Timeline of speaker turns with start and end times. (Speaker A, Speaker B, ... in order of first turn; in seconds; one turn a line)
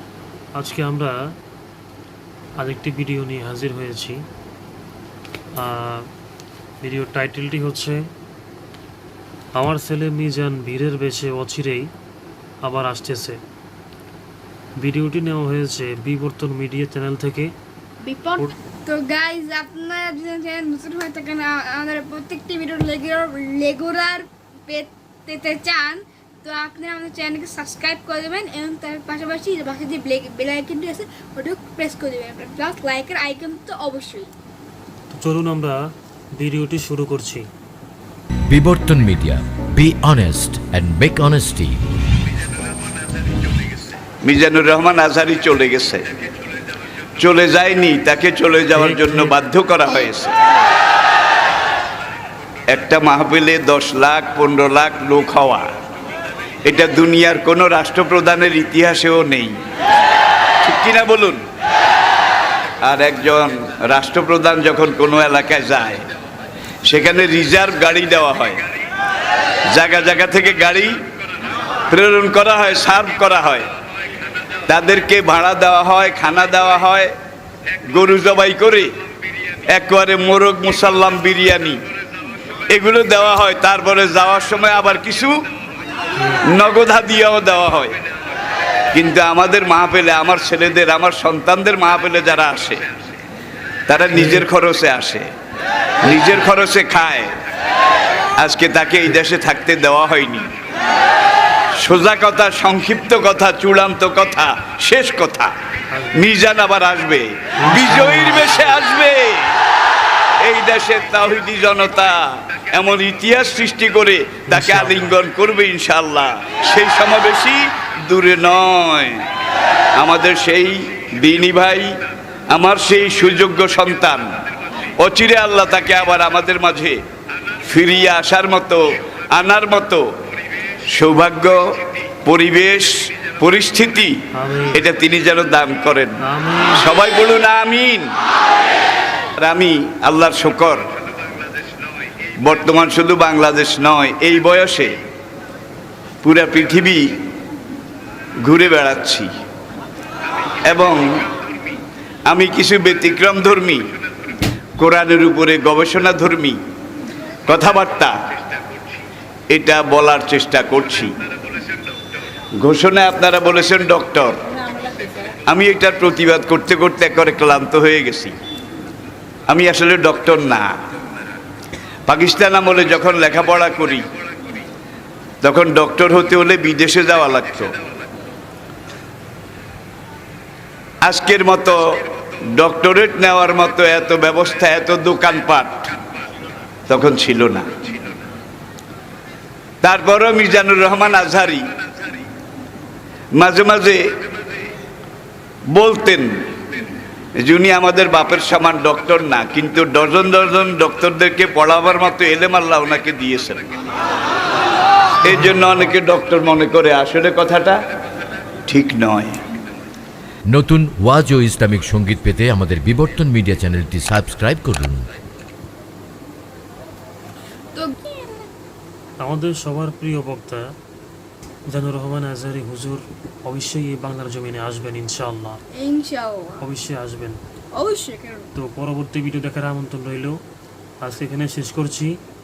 Speaker A: 0.6-1.2
Speaker A: 2.6-4.2
Speaker A: 5.6-6.1
Speaker A: 6.8-8.0
Speaker A: 9.6-11.9
Speaker A: 12.6-13.4
Speaker A: 14.8-17.5
Speaker B: 18.0-34.3
Speaker A: 35.1-35.8
Speaker A: 36.4-37.5
Speaker C: 38.5-41.8
Speaker D: 44.2-46.0
Speaker D: 47.2-50.4
Speaker A: 48.7-49.3
Speaker D: 52.7-55.7
Speaker D: 56.6-59.6
Speaker D: 60.6-61.4
Speaker D: 62.8-66.0
Speaker D: 66.9-68.6
Speaker D: 69.7-71.0
Speaker D: 71.9-73.7
Speaker D: 74.7-77.1
Speaker D: 77.9-78.9
Speaker D: 79.7-81.8
Speaker D: 82.7-85.4
Speaker A: 86.2-86.5
Speaker D: 86.5-87.9
Speaker D: 88.9-92.8
Speaker D: 93.9-95.3
Speaker A: 94.1-94.5
Speaker D: 96.0-97.3
Speaker A: 96.1-96.5
Speaker D: 98.4-100.5
Speaker D: 101.8-105.5
Speaker A: 105.9-106.2
Speaker D: 106.2-109.6
Speaker A: 107.6-108.8
Speaker D: 110.4-119.2
Speaker A: 114.5-115.2
Speaker D: 120.0-121.9
Speaker D: 122.5-124.3
Speaker D: 125.0-127.0
Speaker D: 127.7-128.8
Speaker D: 129.3-130.0
Speaker D: 130.9-131.6
Speaker D: 132.2-134.2
Speaker A: 134.3-134.8
Speaker D: 134.7-138.1
Speaker A: 136.2-136.8
Speaker D: 139.4-140.8
Speaker D: 142.4-144.9
Speaker D: 146.2-147.0
Speaker D: 148.5-149.3
Speaker D: 150.7-151.2
Speaker D: 152.3-153.8
Speaker D: 154.8-156.6
Speaker D: 157.5-158.1
Speaker D: 159.5-161.1
Speaker D: 162.6-164.3
Speaker D: 165.5-168.3
Speaker D: 169.5-170.7
Speaker D: 172.1-174.1
Speaker D: 175.4-177.7
Speaker D: 181.0-185.9
Speaker D: 186.9-187.9
Speaker D: 189.8-191.6
Speaker D: 193.4-194.1
Speaker D: 195.7-196.4
Speaker D: 197.4-203.7
Speaker A: 205.2-205.9
Speaker D: 205.2-207.8
Speaker D: 208.7-209.4
Speaker C: 210.5-215.1
Speaker B: 217.8-218.5
Speaker A: 219.2-220.7
Speaker A: 221.7-225.6
Speaker B: 225.7-226.6
Speaker A: 226.6-227.4
Speaker B: 227.7-228.5
Speaker A: 228.6-230.4
Speaker A: 231.0-232.2